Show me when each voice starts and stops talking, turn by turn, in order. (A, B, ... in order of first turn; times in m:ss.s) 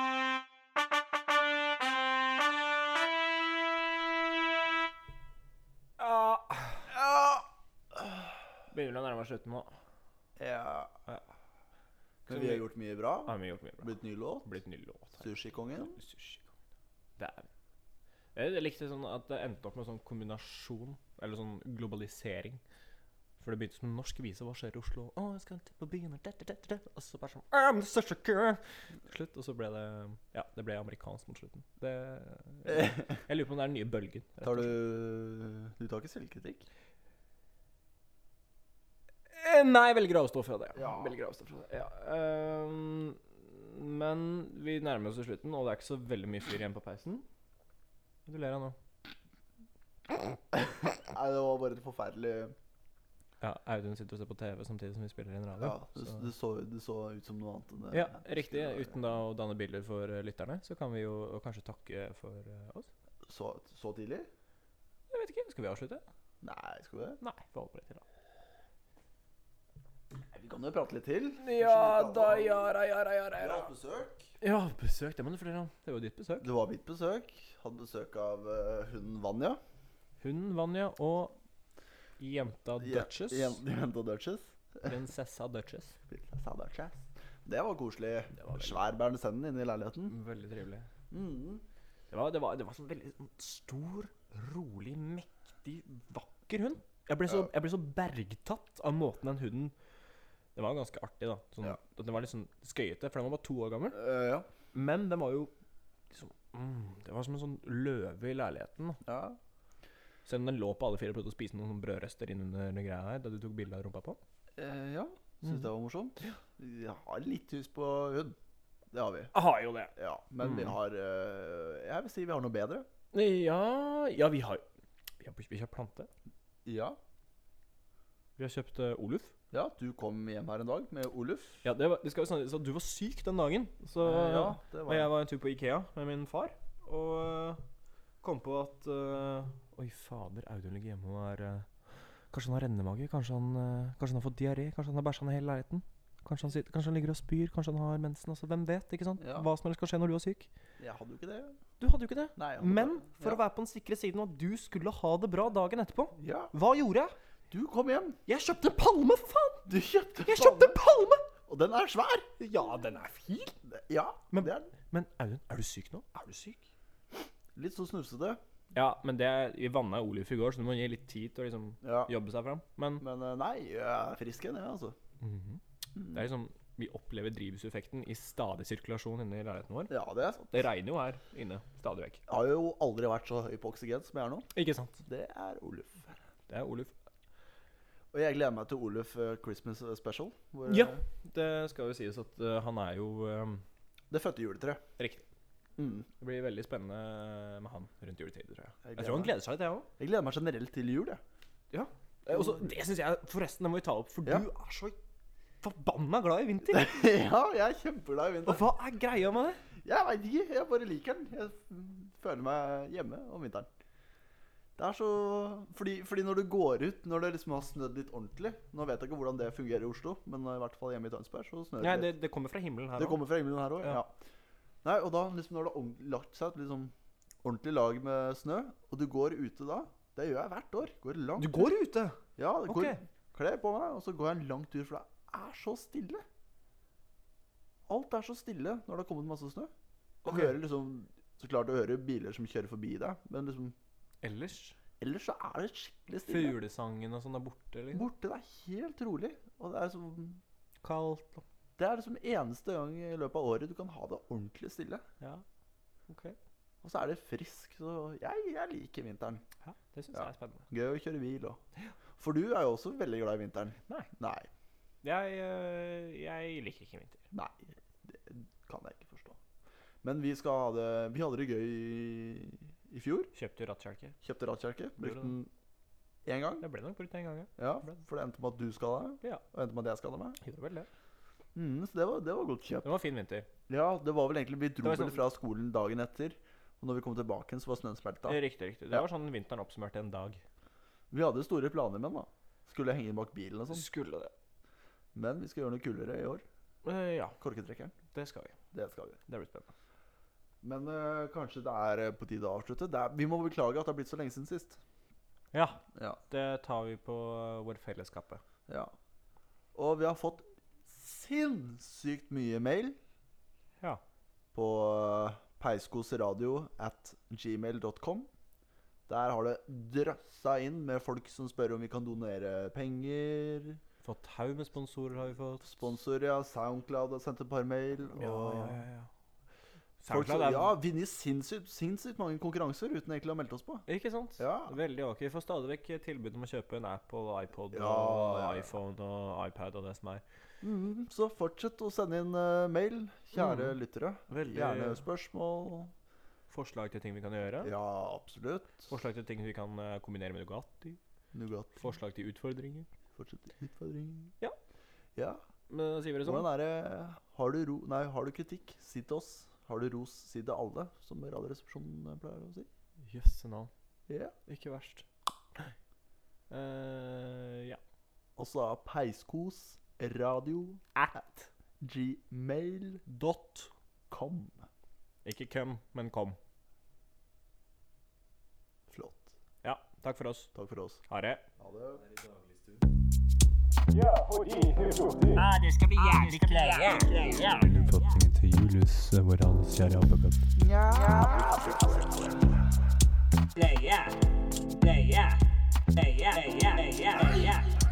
0:06.0-0:06.9 A
0:06.9-0:08.3 B
0:08.7-0:09.7 A
0:10.4-0:10.9 B
0:12.3-0:14.6 B
0:12.3-0:12.7 A
0:13.2-0:15.3 A
0:15.2-0:16.0 B
0:15.8-0:16.5 A
0:17.2-0:17.5 A
0:18.4-0:22.6 A
0:23.4-0:34.7 A
0:32.7-0:33.0 B
0:34.4-0:36.6 B
0:39.3-0:47.2 A
0:40.8-0:41.1 B
0:48.3-0:48.8 A
0:50.5-0:52.6 B
0:53.4-0:56.2 A
0:55.6-0:58.9 B
0:57.9-1:02.9 A
1:03.3-1:04.3 B
1:05.1-1:06.0 A
1:06.4-1:07.2 B
1:07.2-1:08.0 A
1:10.3-1:12.7 B
1:11.4-1:13.7 A
1:13.4-1:14.3 B
1:14.4-1:16.5 A
1:16.4-1:19.6 B
1:20.2-1:21.4 A
1:22.2-1:23.6 A
1:22.8-1:24.5 B
1:24.8-1:26.0 A
1:26.1-1:30.1 B
1:28.3-1:28.8 A
1:30.1-1:30.9 A
1:31.1-1:31.6 B
1:32.1-1:39.7 A
1:40.6-1:44.0 A
1:43.9-1:44.5 B
1:44.7-1:45.5 A
1:46.1-1:49.0 A
1:49.0-1:49.4 B
1:50.3-1:54.2 A
1:54.6-1:58.4 B
1:58.9-1:59.3 B
1:59.3-2:00.7 A
2:00.0-2:02.9 B
2:03.1-2:04.6 A
2:05.2-2:06.1 A
2:06.6-2:07.0 B
2:08.4-2:09.3 A
2:09.5-2:11.6 B
2:11.6-2:17.6 A
2:14.0-2:15.1 B
2:18.2-2:21.7 A
2:22.3-2:30.5 A
2:29.2-2:29.5 B
2:30.8-2:31.6 B
2:31.8-2:37.2 A
2:32.4-2:33.4 B
2:36.2-2:36.5 B
2:37.5-2:38.2 B
2:38.3-2:39.7 A
2:39.7-2:40.8 B
2:40.2-2:41.3 A
2:41.5-2:42.3 B
2:42.4-2:43.6 A
2:43.7-2:44.7 B
2:44.3-2:46.6 A
2:47.6-2:48.4 B
2:48.7-2:53.0 A
2:51.8-2:52.1 B
2:53.0-2:55.0 B
2:55.2-2:59.9 A
2:59.9-3:00.6 B
3:00.5-3:02.2 A
3:02.3-3:04.5 B
3:04.5-3:05.0 A
3:05.0-3:06.2 B
3:06.5-3:06.9 A
3:08.1-3:11.0 B
3:10.7-3:13.6 A
3:14.1-3:14.8 B
3:15.0-3:15.2 A
3:15.8-3:16.1 B
3:16.2-3:19.9 A
3:18.8-3:19.3 B
3:20.0-3:21.2 B
3:21.7-3:25.0 A
3:25.6-3:27.0 A
3:26.7-3:28.6 B
3:28.5-3:29.6 A
3:29.8-3:33.7 B
3:34.8-3:42.1 B
3:41.8-3:43.2 A
3:43.0-3:44.1 B
3:44.8-3:51.7 B
3:51.4-3:53.0 A
3:52.4-3:56.2 B
3:57.9-3:59.7 B
4:00.2-4:00.5 A
4:00.3-4:03.8 B
4:04.2-4:04.8 A
4:05.0-4:06.6 B
4:06.3-4:08.1 A
4:07.9-4:10.4 B
4:10.8-4:11.4 A
4:11.8-4:15.0 B
4:16.1-4:16.4 A
4:16.8-4:19.4 B
4:19.6-4:20.6 A
4:20.1-4:21.6 B
4:22.2-4:24.5 B
4:25.0-4:27.2 A
4:27.3-4:29.4 B
4:30.0-4:33.3 B
4:33.3-4:34.2 A
4:34.2-4:35.5 B
4:35.0-4:35.4 A
4:36.3-4:36.6 B
4:36.6-4:38.0 A
4:37.6-4:40.4 B
4:40.4-4:40.9 A
4:41.6-4:42.9 B
4:42.8-4:43.5 A
4:43.7-4:48.4 B
4:44.8-4:45.2 A
4:48.3-4:50.4 A
4:51.1-4:53.9 B
4:53.7-4:54.3 A
4:55.1-4:56.4 B
4:56.8-4:57.4 A
4:57.4-4:57.9 B
4:58.1-4:58.5 A
4:58.7-4:59.2 B
4:59.3-4:59.7 A
5:00.6-5:04.8 B
5:05.5-5:08.4 A
5:08.7-5:08.9 B
5:09.8-5:13.0 B
5:14.5-5:18.3 B
5:19.1-5:23.8 B
5:24.0-5:25.8 A
5:25.6-5:28.8 B
5:28.2-5:29.1 A
5:30.0-5:30.8 A
5:30.1-5:33.8 B
5:33.9-5:40.2 A
5:34.4-5:34.8 B
5:37.7-5:38.7 B
5:40.6-5:45.9 B
5:43.4-5:43.8 A
5:44.3-5:45.1 A
5:46.5-5:47.7 A
5:47.6-5:48.9 B
5:48.9-5:51.0 A
5:51.3-5:51.8 B
5:51.8-5:52.9 A
5:53.2-5:54.3 B
5:55.2-5:55.4 B
5:55.7-5:56.5 A
5:56.2-6:02.7 B
6:03.1-6:03.7 A
6:04.1-6:04.3 B
6:04.5-6:05.1 A
6:06.5-6:07.8 A
6:08.4-6:10.8 B
6:11.0-6:11.5 A
6:11.8-6:13.0 B
6:13.1-6:13.7 A
6:14.1-6:14.6 B
6:15.2-6:16.4 A
6:18.9-6:19.3 B
6:19.6-6:20.5 A
6:20.6-6:21.0 B
6:21.1-6:21.4 A
6:21.6-6:22.0 B
6:22.2-6:22.8 A
6:24.0-6:25.4 A
6:25.4-6:27.7 C
6:27.5-6:30.5 D
6:30.6-6:32.2 B
6:33.6-6:34.2 C
6:34.8-6:35.4 C
6:35.9-6:37.8 C